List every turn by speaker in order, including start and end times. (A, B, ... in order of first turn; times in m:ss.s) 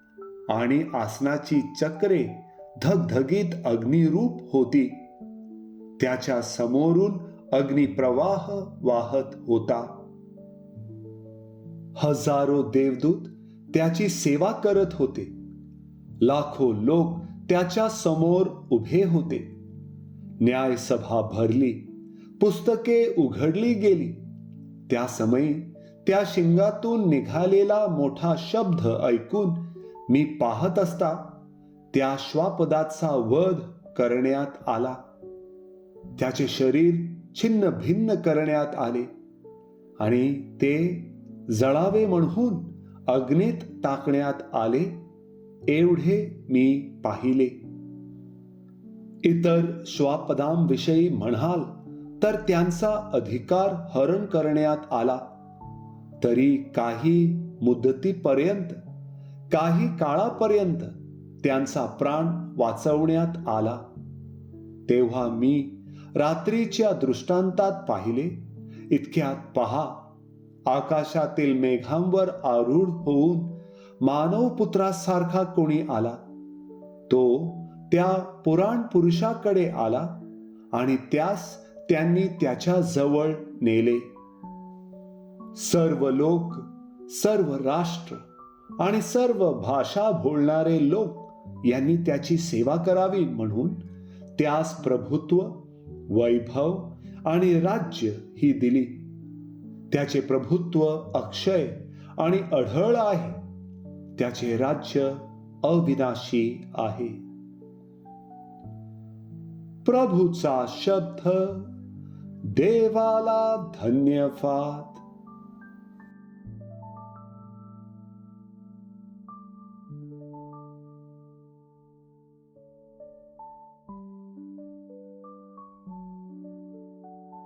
0:00.5-0:05.0 A
0:06.0-0:09.9 A
0:12.0-0:15.3 A
0:16.2-0:19.5 A
0:20.4-0:21.8 A
0:22.4-0:24.2 A
0:24.9-0:31.3 A
0:31.9-0:35.0 A
0:36.2-0:39.1 A
0:40.0-0:45.0 A
0:45.7-0:47.6 A
0:49.2-0:55.2 A
0:56.2-0:58.8 A
0:59.5-1:03.9 A
1:04.8-1:10.1 A
1:10.6-1:16.2 A
1:17.1-1:24.1 A
1:25.5-1:28.2 A
1:28.8-1:33.8 A
1:34.4-1:39.0 A
1:39.9-1:43.4 A
1:44.2-1:47.2 A
1:49.8-1:51.7 A
1:52.4-1:55.0 A